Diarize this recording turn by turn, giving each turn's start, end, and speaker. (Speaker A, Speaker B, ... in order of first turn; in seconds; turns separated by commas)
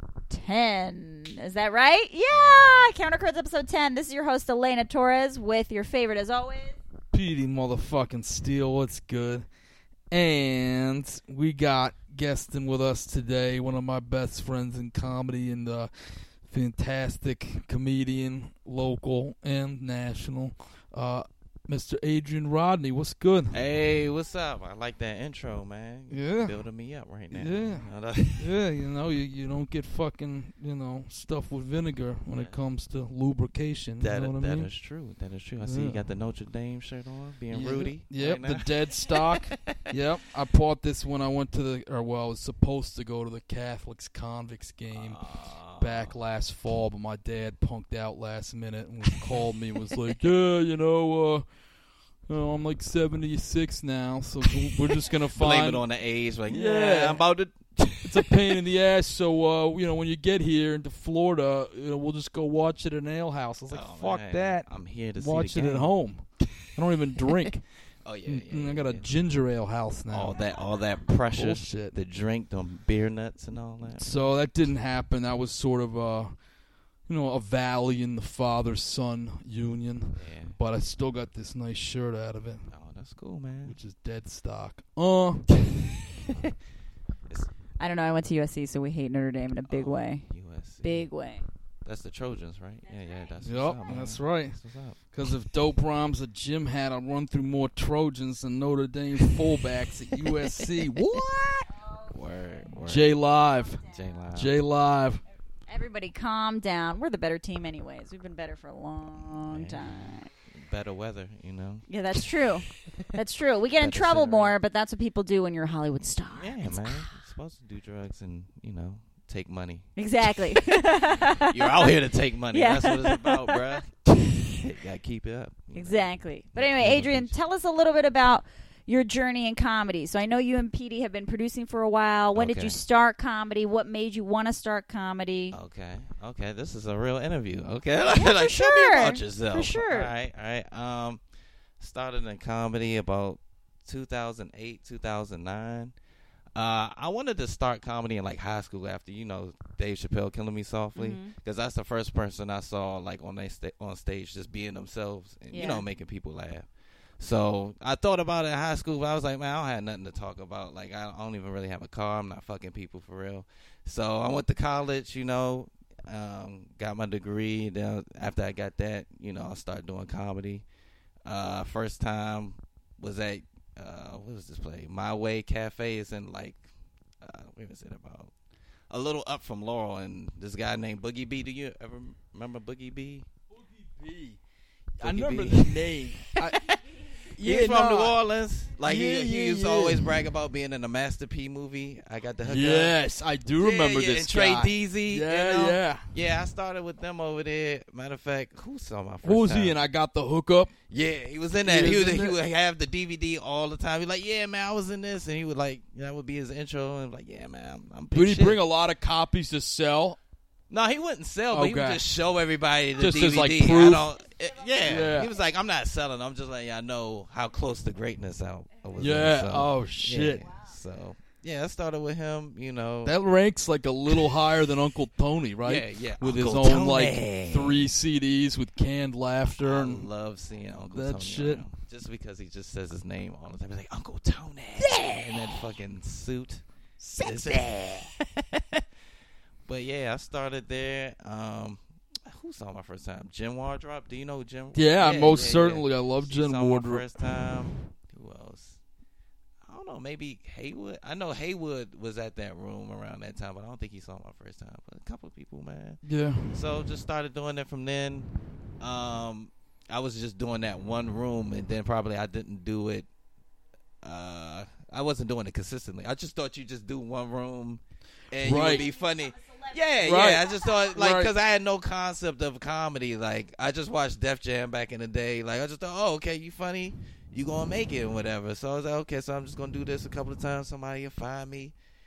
Speaker A: 0.3-6.8, Speaker B: 2.3-2.9, Speaker C: 7.1-9.5, Speaker C: 10.1-23.6, Speaker B: 23.5-28.6, Speaker C: 26.1-26.6, Speaker C: 27.3-34.7, Speaker B: 32.3-32.6, Speaker B: 34.0-39.8, Speaker C: 35.6-36.1, Speaker C: 37.5-51.5, Speaker B: 44.9-46.1, Speaker C: 52.3-55.8, Speaker B: 55.3-58.2, Speaker C: 56.5-57.3, Speaker C: 58.0-70.4, Speaker B: 63.7-66.0, Speaker B: 68.0-69.1, Speaker B: 70.1-74.1, Speaker C: 71.3-72.0, Speaker C: 74.0-76.4, Speaker C: 77.1-82.7, Speaker B: 80.2-80.6, Speaker B: 82.7-83.8, Speaker C: 83.6-85.6, Speaker A: 87.8-91.5, Speaker B: 89.7-91.1, Speaker B: 91.8-95.0, Speaker C: 93.4-101.7, Speaker B: 102.0-103.2, Speaker C: 102.8-105.2, Speaker B: 103.8-104.6, Speaker A: 105.7-110.3, Speaker B: 109.2-113.2, Speaker A: 111.9-117.1, Speaker B: 113.8-114.5, Speaker B: 116.3-120.7, Speaker A: 120.0-123.8, Speaker B: 121.5-127.3, Speaker A: 125.7-135.6, Speaker B: 132.3-132.8, Speaker B: 135.5-141.2, Speaker A: 138.2-140.1, Speaker B: 141.8-145.9, Speaker B: 146.5-170.7, Speaker A: 150.9-151.3, Speaker A: 155.5-155.8, Speaker B: 171.2-176.7, Speaker B: 177.2-178.3, Speaker B: 178.9-183.3, Speaker C: 183.9-188.2, Speaker B: 185.0-193.0, Speaker C: 188.8-190.2, Speaker C: 192.4-196.1, Speaker B: 193.6-199.8, Speaker C: 199.2-200.7, Speaker B: 200.9-208.6, Speaker C: 201.5-202.4, Speaker C: 208.1-210.2, Speaker B: 210.7-223.2, Speaker C: 211.5-212.0, Speaker C: 213.0-214.1, Speaker C: 214.8-215.3, Speaker C: 219.0-220.4, Speaker C: 223.0-230.1, Speaker B: 224.1-224.4, Speaker B: 225.6-227.9, Speaker B: 229.6-236.6, Speaker C: 230.9-231.7, Speaker C: 234.8-235.3, Speaker C: 237.0-237.7, Speaker B: 237.2-238.8, Speaker B: 239.6-248.8, Speaker C: 244.7-247.6, Speaker B: 249.6-263.1, Speaker C: 256.0-256.7, Speaker B: 264.0-281.8, Speaker C: 268.4-268.9, Speaker C: 270.0-271.3